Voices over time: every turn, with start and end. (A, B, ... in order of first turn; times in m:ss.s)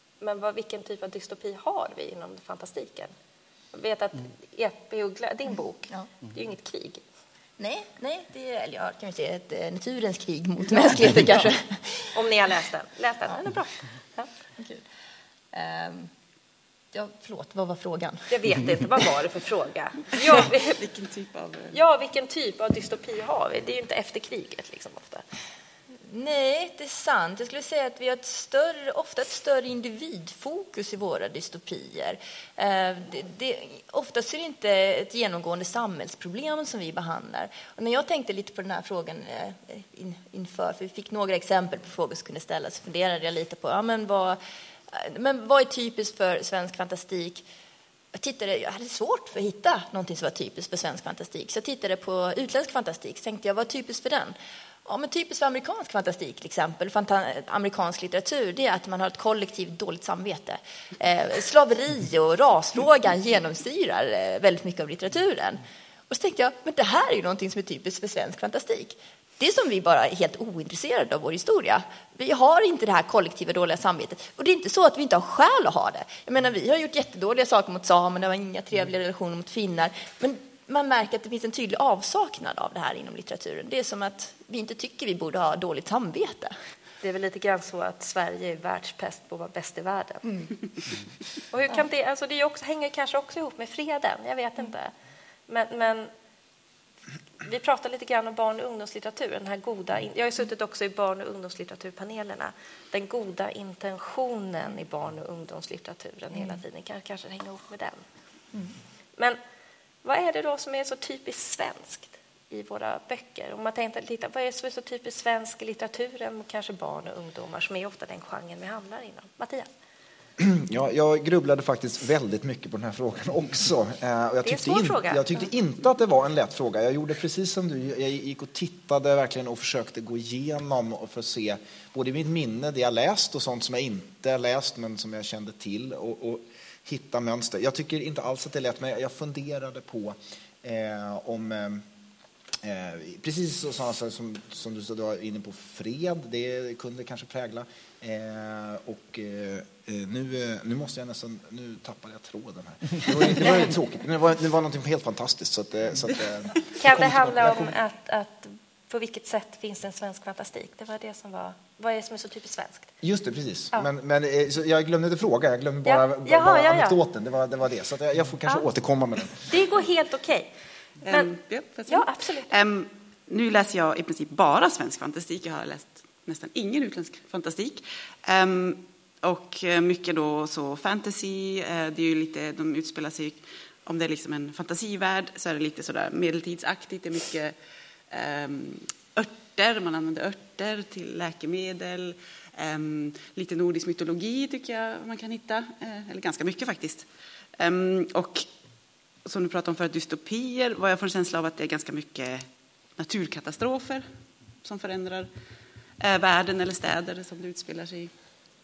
0:00.2-0:03.1 A
0:03.7-0:07.0 A
0:07.6-0:12.1 B
0:12.1-0:14.3 A
0:14.6-0:14.8 B
0:15.5-0:16.1 B
0:16.9-0:18.3 B
0:18.3-0:20.8 A
0:20.8-0:21.8 C
0:21.7-0:25.2 A
0:26.0-0:44.4 B
0:44.9-0:47.5 B
0:48.1-1:26.6 B
1:27.0-1:30.3 A
1:31.5-1:34.9 A
1:35.5-1:36.1 A
1:37.4-1:48.0 A
1:50.0-1:59.7 A
2:00.4-2:21.8 D
2:04.4-2:05.4 A
2:22.6-2:37.6 D
2:36.8-2:42.9 A
2:43.0-2:49.4 D
2:45.8-2:47.0 A
2:49.5-2:50.5 A
2:51.0-3:07.6 C
2:51.9-2:52.5 A
3:08.1-3:18.5 C
3:19.2-3:24.1 C
3:24.6-3:25.3 C
3:26.0-3:28.1 C